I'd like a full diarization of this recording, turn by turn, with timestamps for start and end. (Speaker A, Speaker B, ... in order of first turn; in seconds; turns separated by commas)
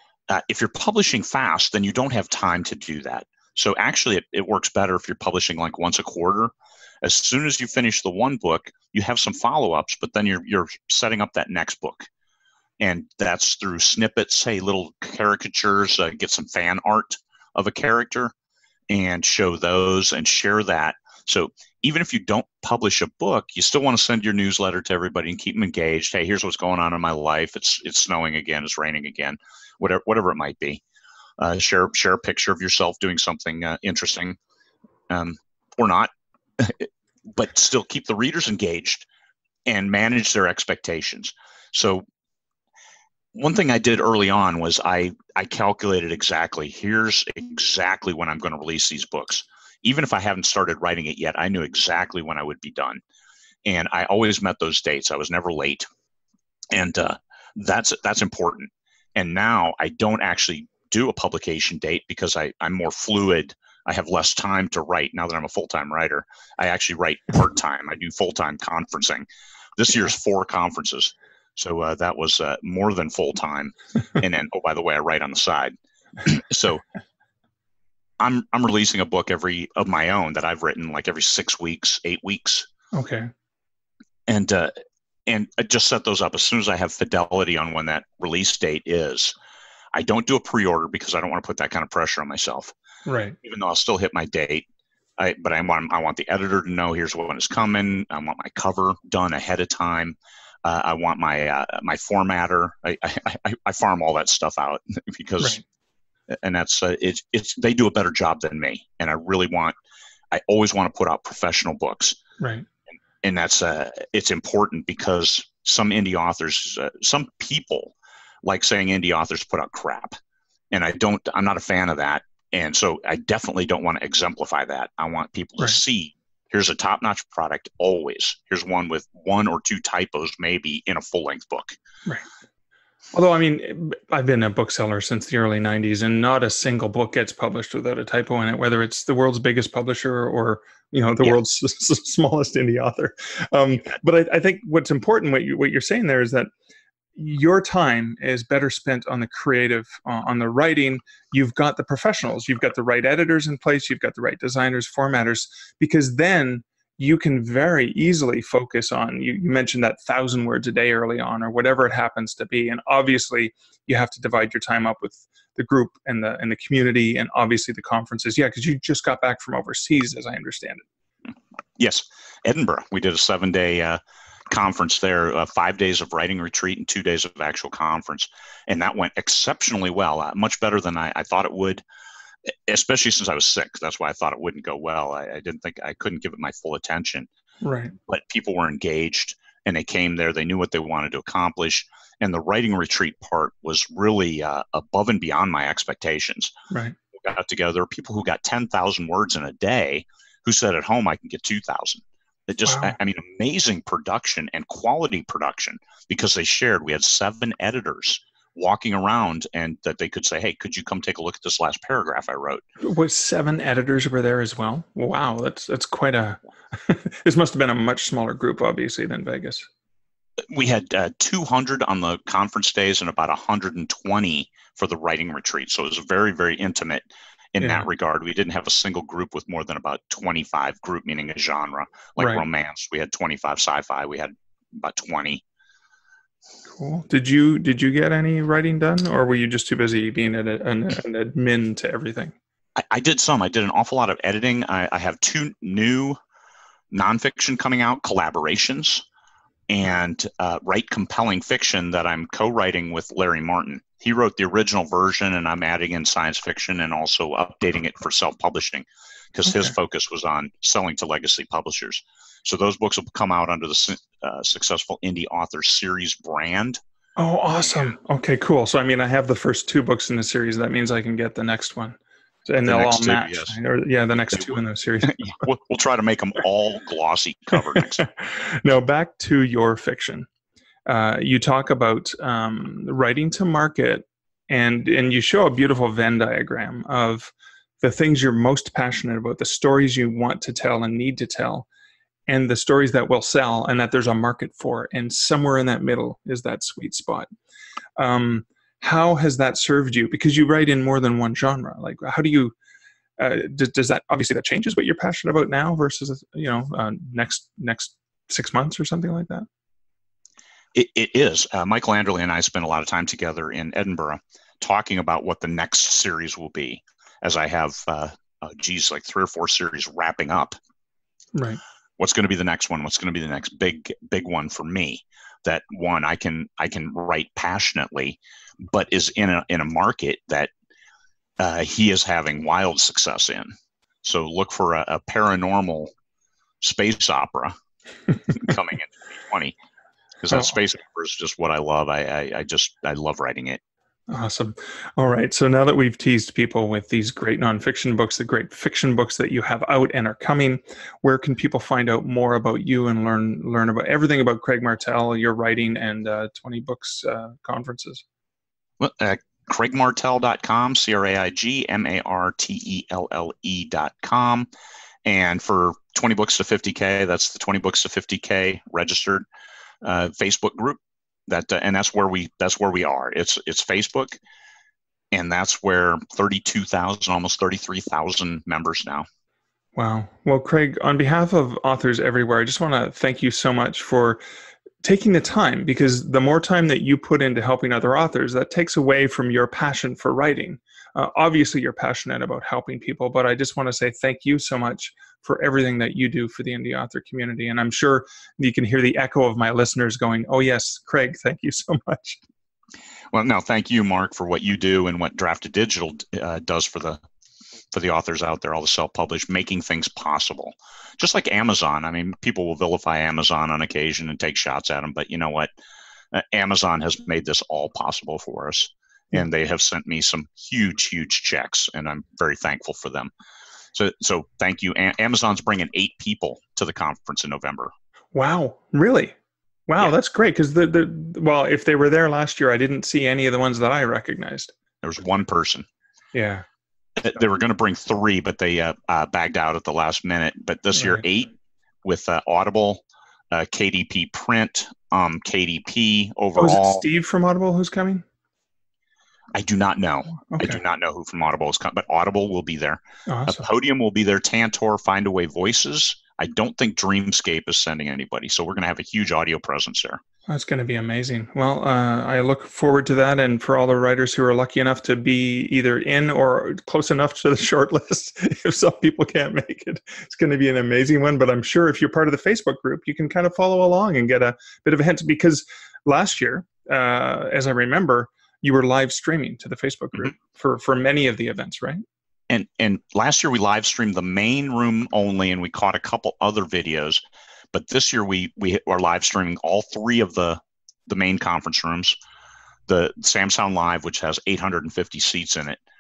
Speaker A: 0.3-6.5, Speaker A: 7.0-12.1, Speaker A: 12.8-18.3, Speaker A: 18.9-30.8, Speaker A: 31.4-34.4, Speaker A: 35.1-39.1, Speaker A: 39.7-42.0, Speaker A: 43.3-53.0, Speaker A: 53.6-55.9, Speaker A: 56.7-69.3, Speaker A: 69.8-76.8, Speaker A: 78.2-82.7, Speaker B: 82.9-83.3, Speaker A: 84.3-84.7, Speaker A: 85.3-89.3, Speaker A: 89.9-92.7, Speaker B: 93.1-93.4, Speaker A: 93.4-94.7, Speaker A: 95.2-105.6, Speaker A: 106.3-109.8, Speaker A: 110.3-112.2, Speaker B: 112.4-112.7, Speaker A: 113.2-120.2, Speaker A: 120.7-131.8, Speaker B: 133.1-146.5, Speaker B: 147.2-170.8, Speaker A: 171.8-174.0, Speaker A: 174.5-181.8, Speaker A: 182.7-187.3, Speaker B: 187.6-187.9, Speaker A: 188.1-196.5, Speaker B: 196.7-197.0, Speaker A: 197.2-212.6, Speaker B: 202.7-202.9, Speaker B: 212.8-219.7, Speaker A: 220.5-235.4, Speaker B: 227.6-227.9, Speaker B: 236.8-242.3, Speaker A: 242.8-246.2, Speaker A: 246.9-249.1, Speaker A: 249.7-266.8, Speaker B: 259.5-259.7, Speaker B: 267.2-275.3, Speaker A: 267.6-267.9, Speaker A: 272.6-273.6, Speaker A: 274.3-278.0, Speaker B: 277.7-280.3, Speaker B: 280.9-291.7, Speaker B: 292.3-297.3, Speaker B: 298.0-302.5, Speaker B: 303.2-309.5, Speaker A: 310.7-320.6, Speaker B: 321.4-321.6, Speaker A: 322.0-330.5, Speaker A: 331.4-333.5, Speaker A: 334.0-335.9, Speaker A: 336.6-337.6, Speaker A: 338.3-339.6, Speaker A: 340.2-343.6, Speaker B: 344.1-358.0, Speaker A: 358.8-364.5, Speaker A: 365.1-369.2, Speaker A: 369.8-374.2, Speaker A: 375.1-379.1, Speaker B: 379.8-384.2, Speaker B: 384.8-402.2, Speaker A: 403.1-407.0, Speaker A: 407.7-415.5, Speaker A: 416.1-423.1, Speaker A: 423.8-427.7, Speaker B: 428.1-429.2, Speaker B: 429.7-434.5, Speaker A: 434.8-435.7, Speaker B: 436.1-436.4, Speaker A: 437.0-441.3, Speaker B: 440.8-441.0, Speaker A: 441.8-446.8, Speaker B: 446.4-448.0, Speaker A: 449.4-460.0, Speaker B: 450.3-450.6, Speaker B: 453.1-453.4, Speaker B: 460.3-481.8, Speaker A: 482.3-492.0, Speaker A: 492.7-495.6